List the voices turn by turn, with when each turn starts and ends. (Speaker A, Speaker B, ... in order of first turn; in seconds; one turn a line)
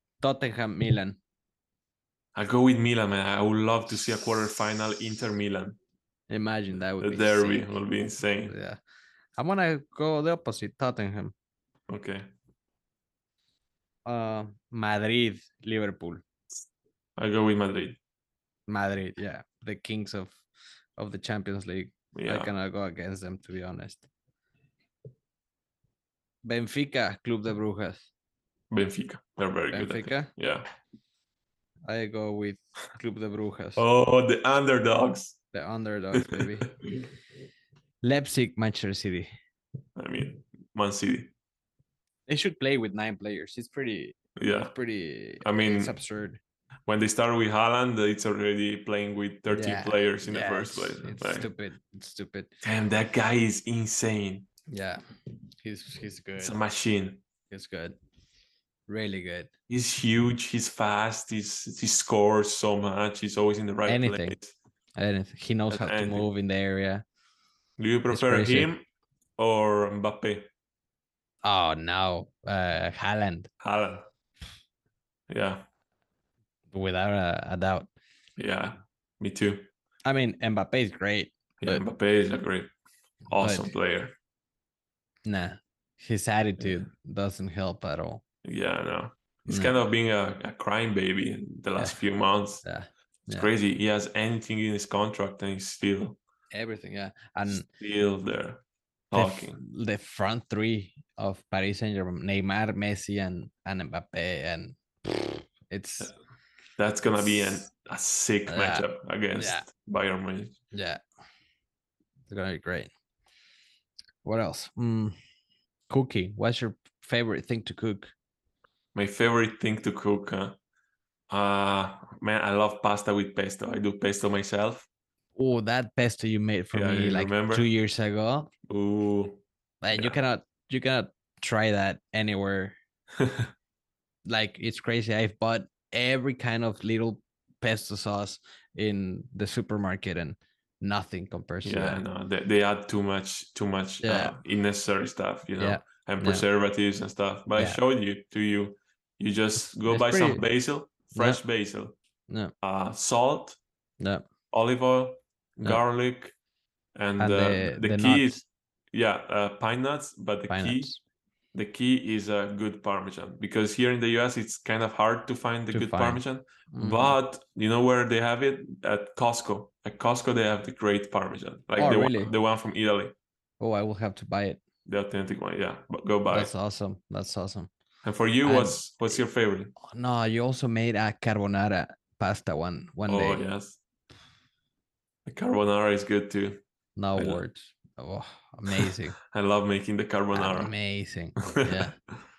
Speaker A: 0.2-1.2
Speaker B: 2.3-5.8
Speaker A: 6.3-7.7
Speaker B: 7.0-8.5
Speaker A: 8.4-8.8
Speaker A: 9.4-11.3
Speaker B: 11.9-12.3
Speaker A: 14.1-16.2
Speaker B: 17.2-18.0
Speaker A: 18.7-20.4
Speaker A: 21.0-24.1
Speaker B: 22.1-22.5
Speaker A: 26.4-28.1
Speaker B: 28.7-30.7
Speaker A: 29.7-30.3
Speaker A: 31.9-33.8
Speaker B: 33.8-35.4
Speaker A: 35.5-36.8
Speaker B: 36.1-37.0
Speaker A: 38.0-39.3
Speaker B: 40.0-41.3
Speaker A: 42.3-46.4
Speaker B: 44.4-44.7
Speaker B: 45.4-45.9
Speaker B: 46.9-51.5
Speaker A: 49.5-52.5
Speaker B: 52.6-54.5
Speaker A: 54.7-55.0
Speaker A: 55.6-56.6
Speaker B: 56.4-57.2
Speaker A: 57.5-58.0
Speaker A: 58.9-59.5
Speaker B: 59.7-64.5
Speaker A: 63.9-64.3
Speaker A: 65.0-67.0
Speaker B: 65.7-66.3
Speaker B: 67.8-68.8
Speaker A: 68.1-68.7
Speaker B: 69.4-70.5
Speaker A: 71.4-73.5
Speaker B: 73.6-74.1
Speaker B: 75.3-75.7
Speaker A: 76.7-77.9
Speaker B: 78.4-79.7
Speaker A: 80.0-81.8
Speaker B: 81.6-82.7
Speaker A: 83.3-83.7
Speaker B: 83.3-84.1
Speaker A: 85.2-88.2
Speaker B: 88.4-92.6
Speaker A: 89.5-89.7
Speaker A: 92.6-93.5
Speaker B: 93.3-96.2
Speaker A: 96.5-97.7
Speaker B: 97.5-99.6
Speaker A: 99.1-106.1
Speaker B: 106.8-110.6
Speaker A: 108.5-109.7
Speaker A: 110.7-111.0
Speaker A: 112.3-112.9
Speaker A: 114.2-115.1
Speaker A: 115.9-118.1
Speaker B: 118.9-120.6
Speaker B: 121.3-124.9
Speaker A: 125.3-128.5
Speaker B: 126.7-127.7
Speaker B: 128.7-129.4
Speaker A: 129.8-132.7
Speaker B: 133.2-133.5
Speaker A: 134.2-142.0
Speaker B: 141.6-151.9
Speaker A: 144.0-144.4
Speaker A: 145.6-146.4
Speaker A: 149.8-150.4
Speaker A: 151.2-151.4
Speaker B: 152.6-153.6
Speaker A: 154.0-154.2
Speaker B: 154.5-156.3
Speaker B: 156.9-158.4
Speaker A: 157.2-158.4
Speaker B: 158.9-160.9
Speaker A: 160.5-161.0
Speaker B: 161.5-173.1
Speaker A: 165.7-167.2
Speaker A: 171.8-172.3
Speaker A: 173.6-174.6
Speaker B: 174.8-176.5
Speaker A: 176.3-177.7
Speaker B: 178.0-179.7
Speaker A: 178.4-178.8
Speaker A: 179.8-183.4
Speaker B: 183.1-183.8
Speaker B: 185.2-186.6
Speaker A: 186.9-189.2
Speaker B: 188.7-190.7
Speaker A: 190.3-191.9
Speaker B: 191.4-191.9